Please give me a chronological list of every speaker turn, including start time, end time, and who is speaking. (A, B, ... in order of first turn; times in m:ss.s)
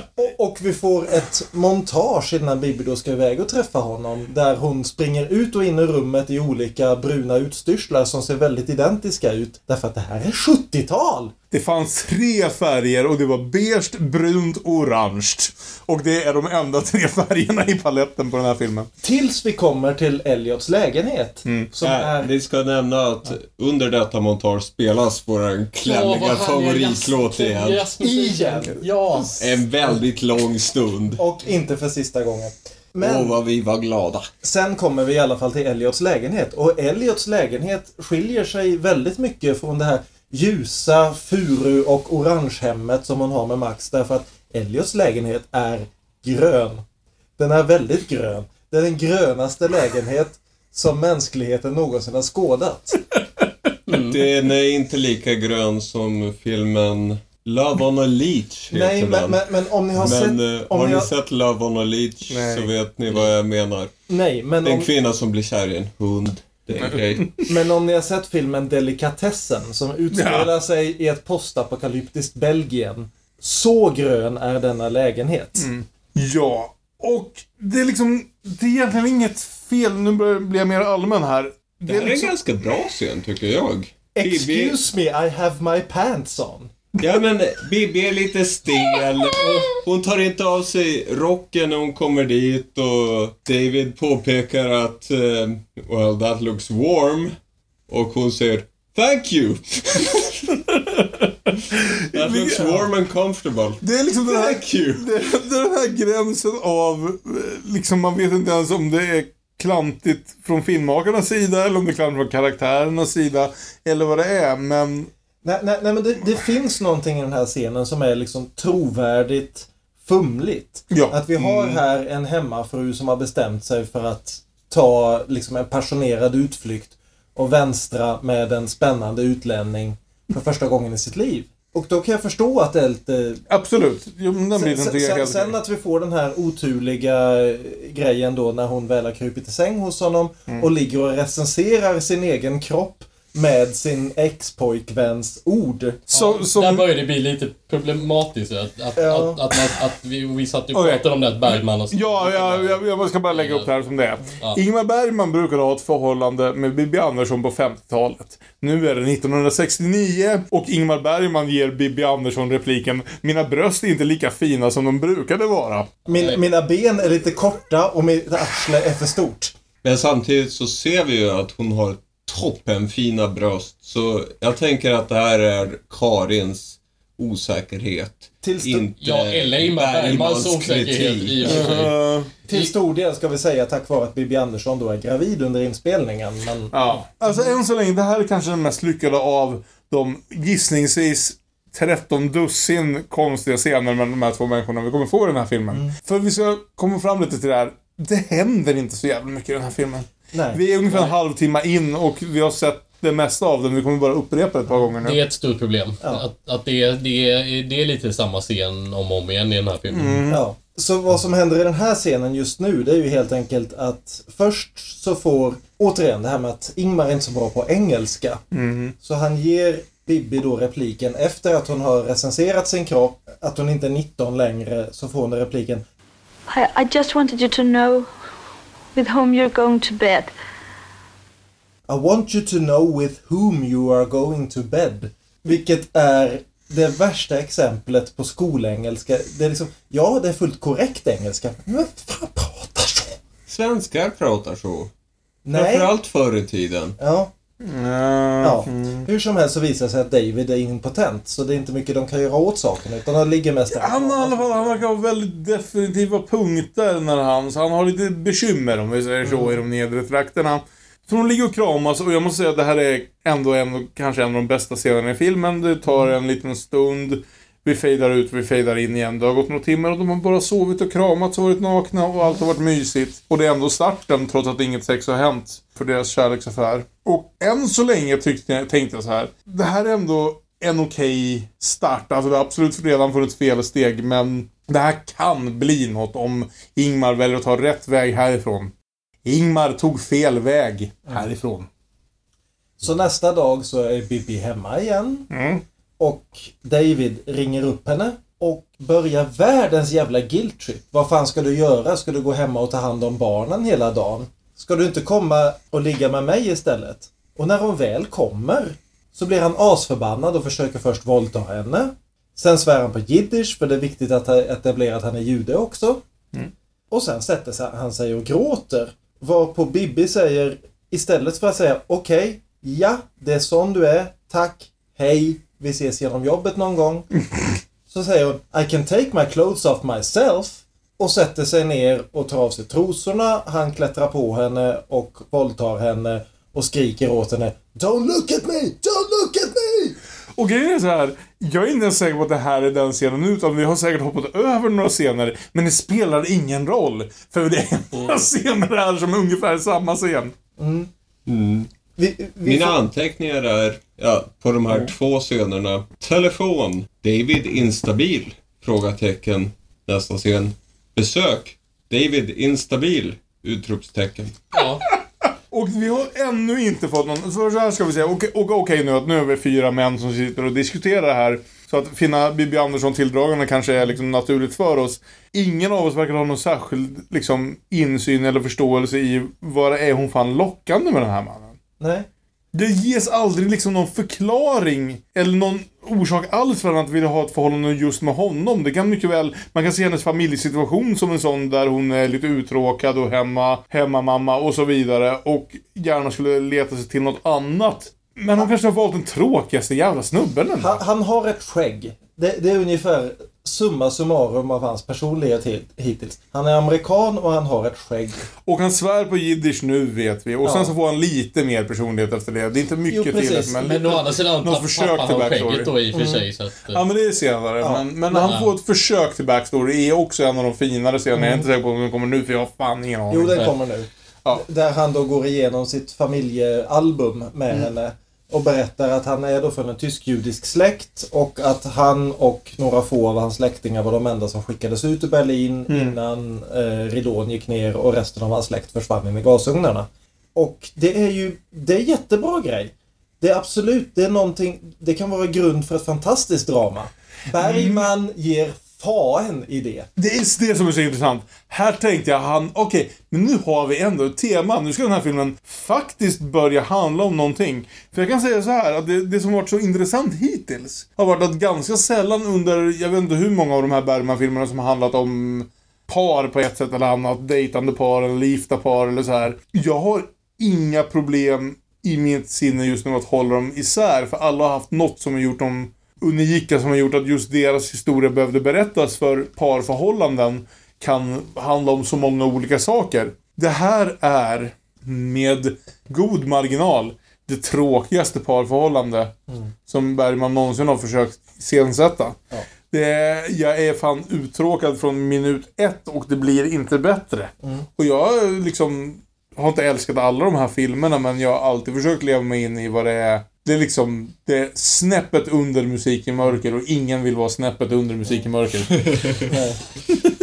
0:00.2-0:11.3 A
0:11.5-0:18.9 B
0:19.0-0:22.3 A
0:21.8-0:27.8 C
0:25.8-0:29.4 D
0:28.0-0:29.3 A
0:28.6-0:29.1 B
0:29.4-0:31.2 C
0:31.2-0:33.4 A
0:33.0-0:34.3 C
0:34.4-0:46.8 A
0:47.4-0:53.0 A
0:53.9-0:54.3 D
0:53.9-0:59.4 C
0:58.7-1:01.1 A
1:00.0-1:03.9 C
1:02.3-1:02.7 B
1:04.1-1:04.9 A
1:04.6-1:07.4 C
1:06.8-1:07.4 B
1:07.5-1:15.7 A
1:10.1-1:10.5 B
1:15.6-1:22.3 B
1:21.9-1:24.8 C
1:24.2-1:26.7 A
1:27.0-1:37.4 C
1:37.9-1:40.5 C
1:40.7-1:42.9 B
1:42.1-1:45.1 C
1:43.8-1:55.1 B
1:55.4-2:13.4 A
2:00.9-2:01.8 B
2:13.5-2:15.6 B
2:14.6-2:26.0 A
2:26.1-2:26.9 B
2:26.1-2:33.7 D
2:29.0-2:29.4 A
2:30.8-2:46.0 B
2:46.1-2:49.5 A
2:49.8-3:01.8 C
2:58.4-2:58.9 A
2:59.0-3:01.9 D
3:01.5-3:02.3 B
3:02.5-3:07.5 A
3:06.7-3:25.2 B
3:15.7-3:16.0 A
3:20.3-3:21.1 A
3:25.0-3:30.2 D
3:29.9-3:30.4 B
3:30.3-3:38.4 A
3:38.5-3:38.9 B
3:39.0-3:45.8 A
3:46.5-3:48.1 E
3:49.0-3:50.3 E
3:51.9-4:03.2 A
4:03.5-4:04.9 C
4:05.4-4:05.9 A
4:05.5-4:07.0 C
4:07.0-4:07.3 A
4:07.6-4:09.1 B
4:08.4-4:14.8 A
4:13.7-4:48.7 B
4:19.2-4:19.6 A
4:49.3-4:51.7 B
4:52.8-4:55.3 A
4:55.3-4:55.6 B
4:56.0-5:16.0 A
5:16.9-5:27.1 A
5:27.9-5:40.0 A
5:40.4-5:50.3 B
5:48.0-5:48.2 D
5:50.6-5:50.9 A
5:51.3-5:51.7 C
5:52.0-5:52.8 A
5:52.4-6:04.4 C
6:04.5-6:04.8 D
6:05.3-6:21.6 B
6:21.8-6:22.1 A
6:22.5-6:40.8 B
6:40.6-6:48.2 A
6:48.4-6:55.7 B
6:50.4-6:50.7 A
6:52.9-6:53.6 A
6:53.6-6:56.8 D
6:55.9-6:56.2 A
6:56.7-7:03.5 B
6:57.6-6:58.3 A
6:58.2-6:58.5 D
7:01.1-7:01.4 A
7:03.1-7:29.9 A
7:15.7-7:16.0 B
7:27.4-7:27.9 B
7:30.0-8:09.1 B
8:09.7-8:12.2 B
8:12.7-8:29.3 B
8:28.9-8:29.2 C
8:29.3-8:29.6 A